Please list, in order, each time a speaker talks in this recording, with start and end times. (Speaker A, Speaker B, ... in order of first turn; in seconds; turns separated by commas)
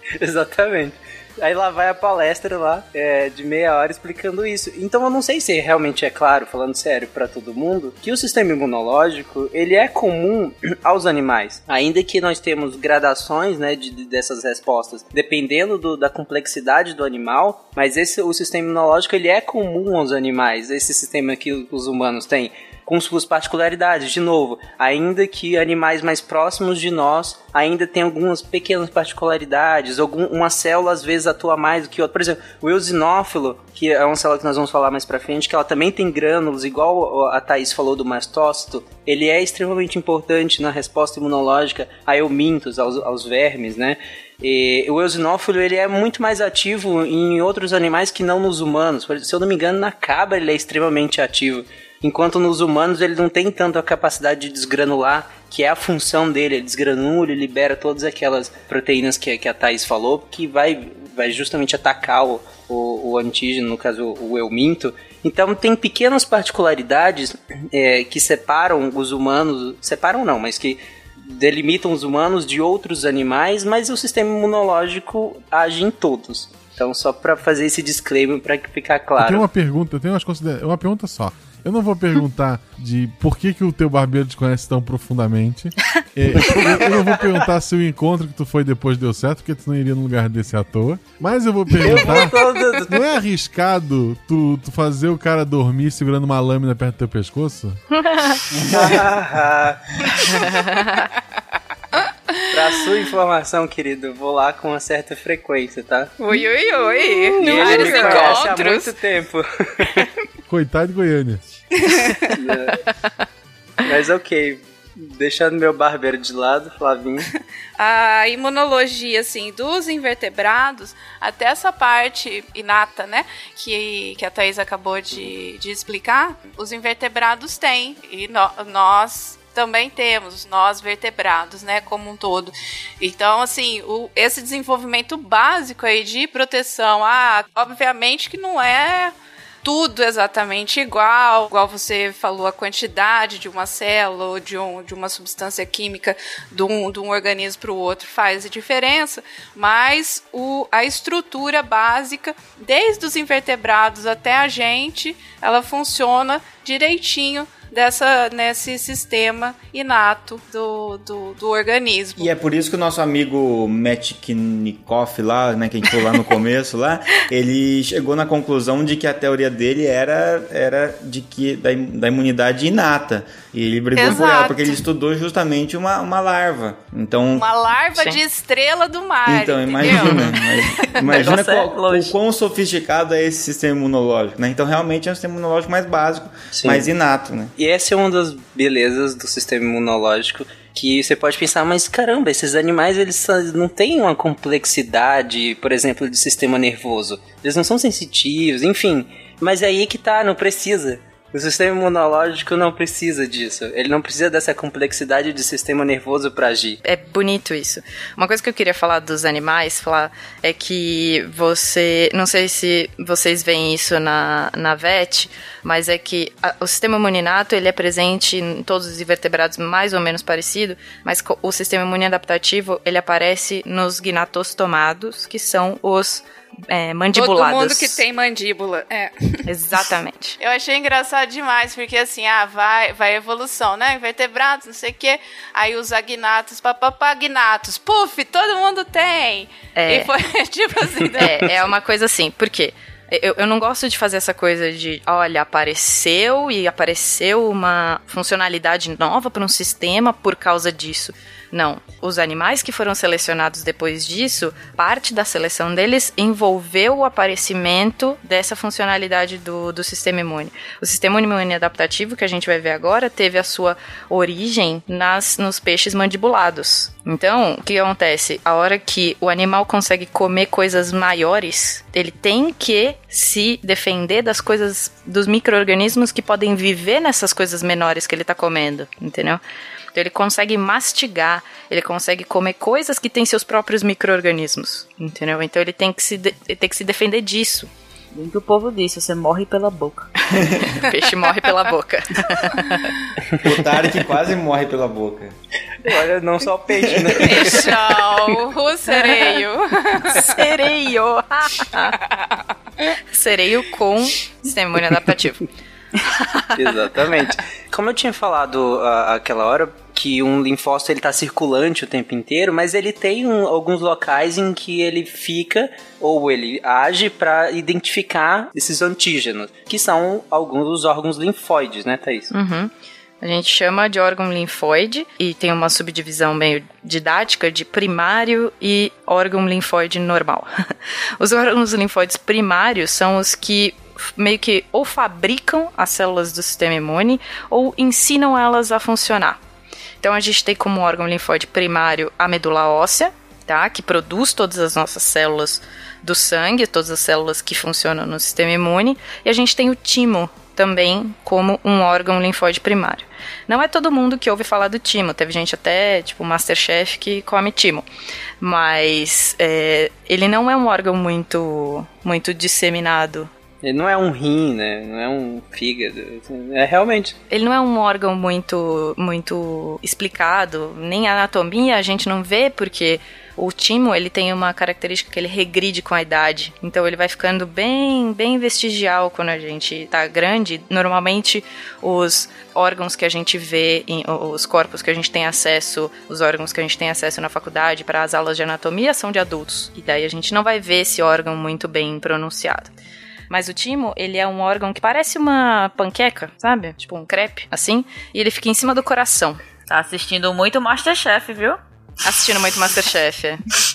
Speaker A: 0.2-79.5, Speaker B: 79.2-97.8, Speaker A: 91.8-93.0, Speaker C: 98.0-98.4, Speaker D: 98.6-99.0, Speaker A: 98.7-100.4, Speaker A: 102.5-106.2, Speaker E: 106.2-108.8, Speaker C: 106.3-108.8, Speaker A: 107.4-110.1, Speaker B: 110.5-111.4, Speaker E: 112.0-112.3, Speaker A: 112.3-112.9, Speaker A: 113.8-117.3, Speaker E: 117.8-162.3, Speaker D: 162.2-177.5, Speaker E: 173.9-174.8, Speaker E: 177.3-180.9, Speaker D: 179.3-187.5, Speaker F: 181.1-182.1, Speaker A: 186.5-186.9, Speaker A: 187.6-206.8, Speaker C: 206.8-228.0, Speaker E: 227.2-229.4, Speaker C: 229.5-230.4, Speaker E: 230.4-241.7, Speaker C: 239.8-240.1, Speaker C: 241.2-279.4, Speaker C: 279.9-287.7, Speaker F: 288.1-290.1, Speaker D: 290.4-290.7, Speaker C: 290.8-292.9, Speaker D: 293.4-295.4, Speaker A: 295.8-298.2, Speaker E: 297.2-300.5, Speaker C: 300.2-302.0, Speaker C: 303.1-305.4, Speaker A: 306.6-322.3, Speaker C: 322.3-322.7, Speaker C: 323.2-330.5, Speaker C: 331.2-339.4, Speaker C: 340.0-357.9, Speaker C: 358.4-363.3, Speaker A: 363.6-367.2, Speaker C: 367.3-392.7, Speaker C: 393.3-399.4, Speaker F: 399.7-401.6, Speaker C: 402.0-403.4